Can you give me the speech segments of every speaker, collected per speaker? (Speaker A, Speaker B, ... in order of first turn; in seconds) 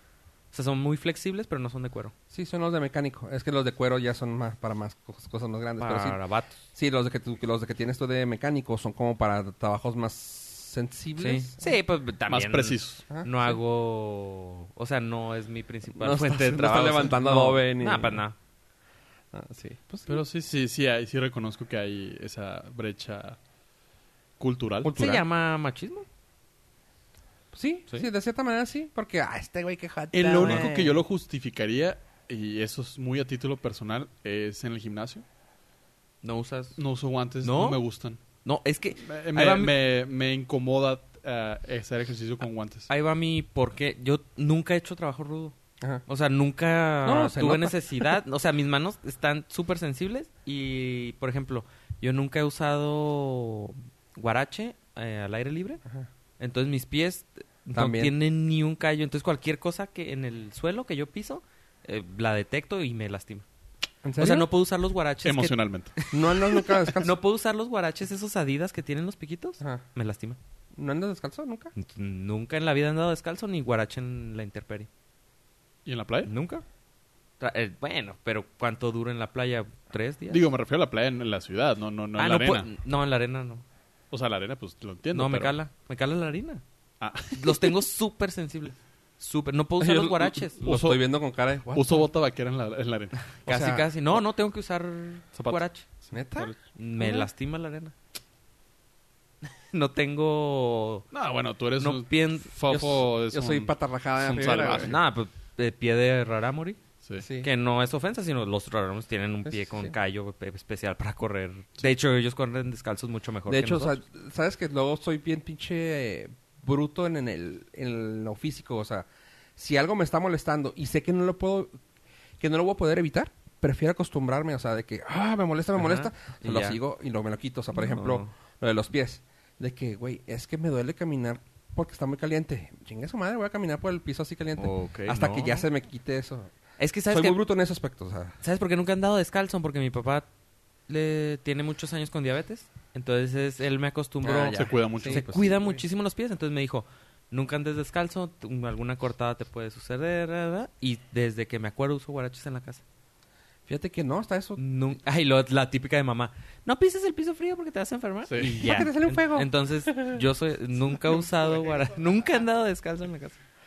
Speaker A: 0.5-2.1, 5.8-6.6, 11.2-18.4, 24.8-26.1, 30.3-30.7, 36.2-36.8, 37.4-37.8, 38.4-39.7, 42.9-45.5, 46.1-55.8, 56.4-63.4, 64.2-70.4, 71.8-74.9, 76.2-76.6, 77.4-80.5, 82.2-83.6, 85.1-86.6, 87.3-90.6, 93.4-97.9, 99.7-101.1, 101.8-102.8, 104.7-106.8, 107.4-114.0, 125.8-126.8, 127.7-128.3, 134.6-135.6, 136.8-137.4, 138.4-140.3, 140.9-152.8, 154.6-163.4
Speaker B: 2.3-6.2, 6.7-11.6, 13.1-13.6, 15.9-18.2, 19.3-20.2, 24.8-25.2, 27.5-31.0, 47.0-48.1, 57.7-58.1, 64.0-64.5, 66.1-67.2, 70.8-71.7, 89.8-92.1, 93.5-93.9, 96.1-97.3, 102.7-105.0, 107.2-107.5, 109.4-109.9, 113.5-121.8, 122.4-136.5, 137.1-138.4, 144.2-145.7, 153.7-154.6, 158.6-160.2
Speaker C: 12.3-13.0, 20.1-23.4, 24.4-24.9, 30.1-35.2, 36.8-38.2, 39.0-42.9, 65.2-65.9, 75.8-76.3, 80.3-82.7, 84.1-85.5, 87.0-87.8, 90.6-91.0, 91.7-93.3, 95.3-95.6, 101.1-105.0, 144.5-145.3, 158.3-158.6